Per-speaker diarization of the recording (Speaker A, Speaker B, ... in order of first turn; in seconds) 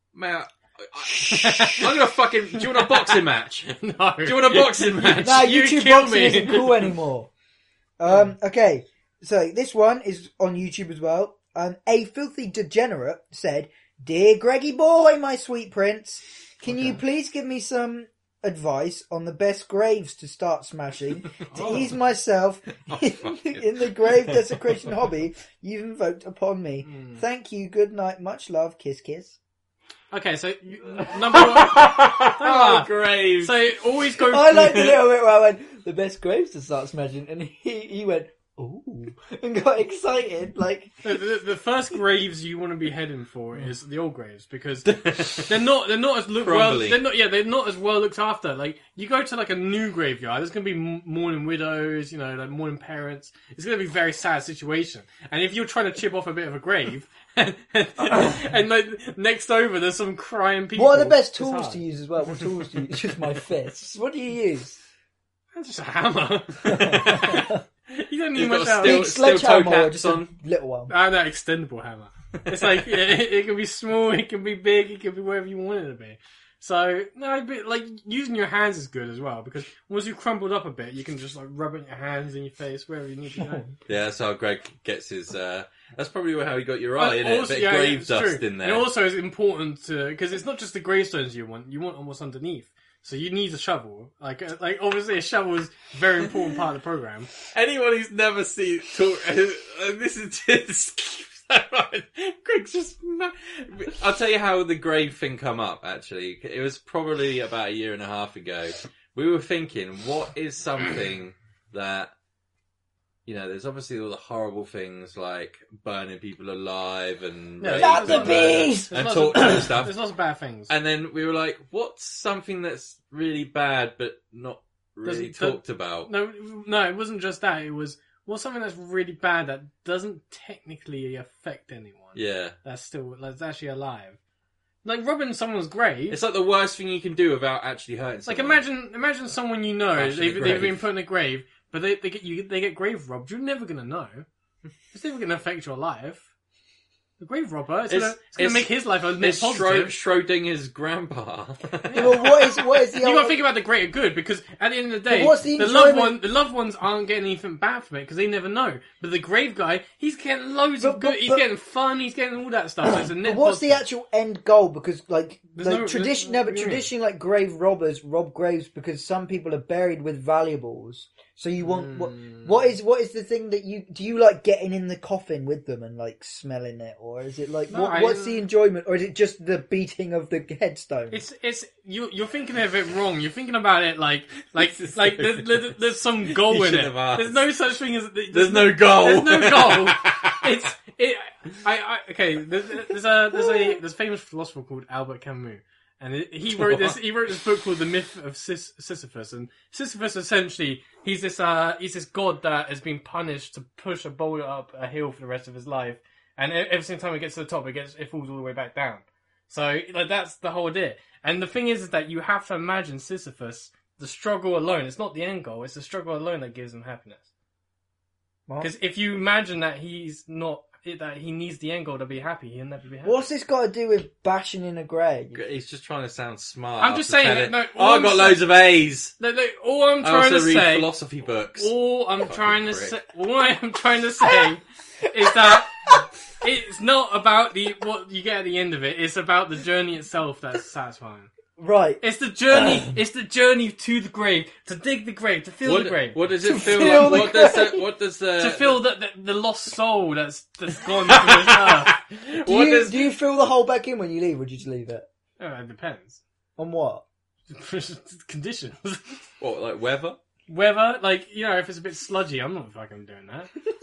Speaker A: 0.1-3.7, 4.2-5.4, 22.9-24.4, 31.3-33.7, 44.9-45.6, 46.4-47.0, 66.9-67.5, 68.3-70.3, 83.9-88.9, 97.5-112.1, 113.3-120.0, 120.7-126.1, 132.2-132.6, 136.1-138.6, 140.0-140.8, 147.9-152.2, 184.6-185.7, 186.3-187.5, 188.3-190.6, 196.6-196.9, 225.3-229.2, 230.0-233.0, 245.6-248.8, 251.2-253.1, 259.4-260.2
Speaker B: 1.2-1.9, 2.6-3.2, 3.7-6.9, 16.7-17.0, 21.5-21.9, 26.9-27.2, 30.1-35.0, 41.0-61.8, 65.5-69.0, 70.9-83.7, 87.0-97.3, 117.6-120.7, 125.0-134.2, 134.8-136.2, 138.3-144.3, 144.9-146.3, 147.2-149.9, 151.8-163.8, 165.6-166.9, 171.6-172.7, 177.7-178.4, 181.1-217.3, 218.6-223.2, 226.8-228.4, 229.2-230.9, 231.6-235.9, 236.4-241.3, 242.0-246.2, 248.4-251.9, 255.4-256.2, 257.5-259.3, 260.5-263.5
Speaker C: 5.2-7.3, 8.0-29.4, 34.3-41.2, 58.1-58.4, 60.8-64.8, 66.7-67.6, 68.8-70.9, 117.8-119.7, 151.9-153.4, 155.1-156.2, 160.8-161.4, 162.9-181.2, 223.0-225.4, 235.5-235.9, 241.6-242.9, 246.4-247.9, 252.4-255.1, 256.6-257.0